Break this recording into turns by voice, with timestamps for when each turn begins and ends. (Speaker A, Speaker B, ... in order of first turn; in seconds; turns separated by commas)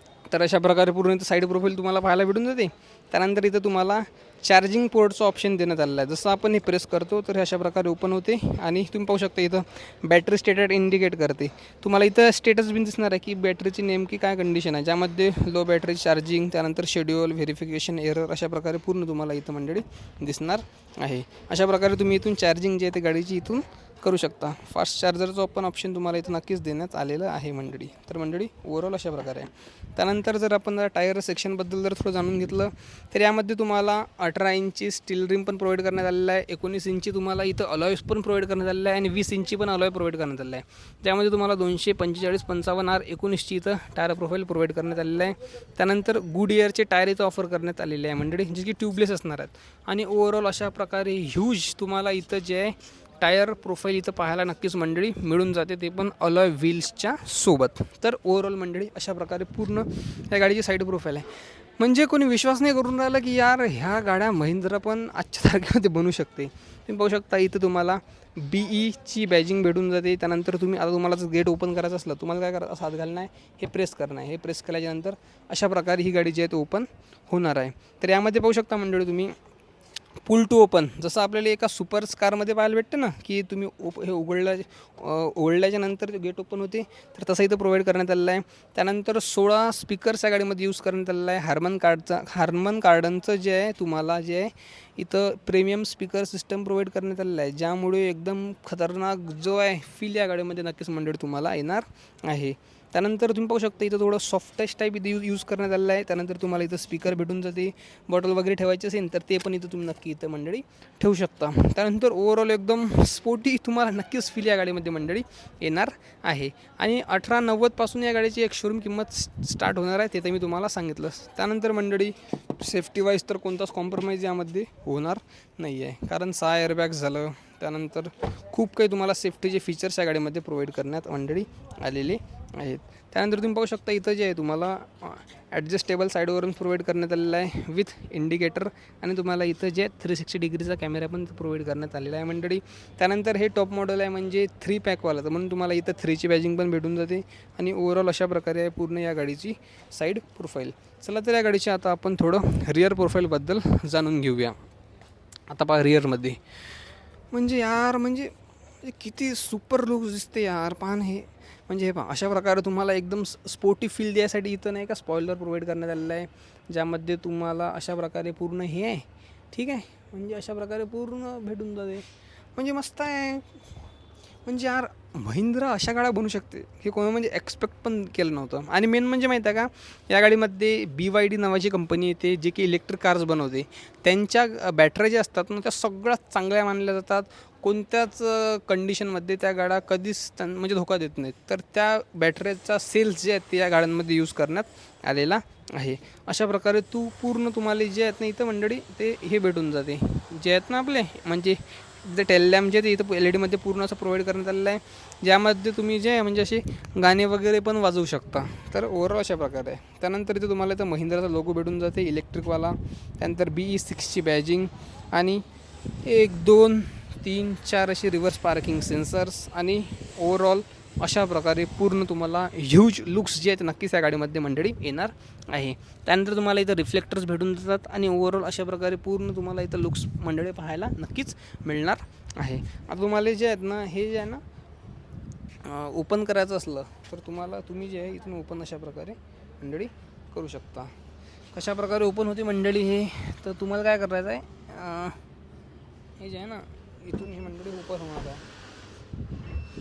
Speaker A: 0.3-79.3, Speaker A: 80.2-154.6, Speaker A: 155.5-156.4, Speaker A: 157.3-173.5, Speaker A: 174.5-234.4, Speaker A: 235.6-240.9, Speaker A: 241.5-245.2, Speaker A: 246.2-248.4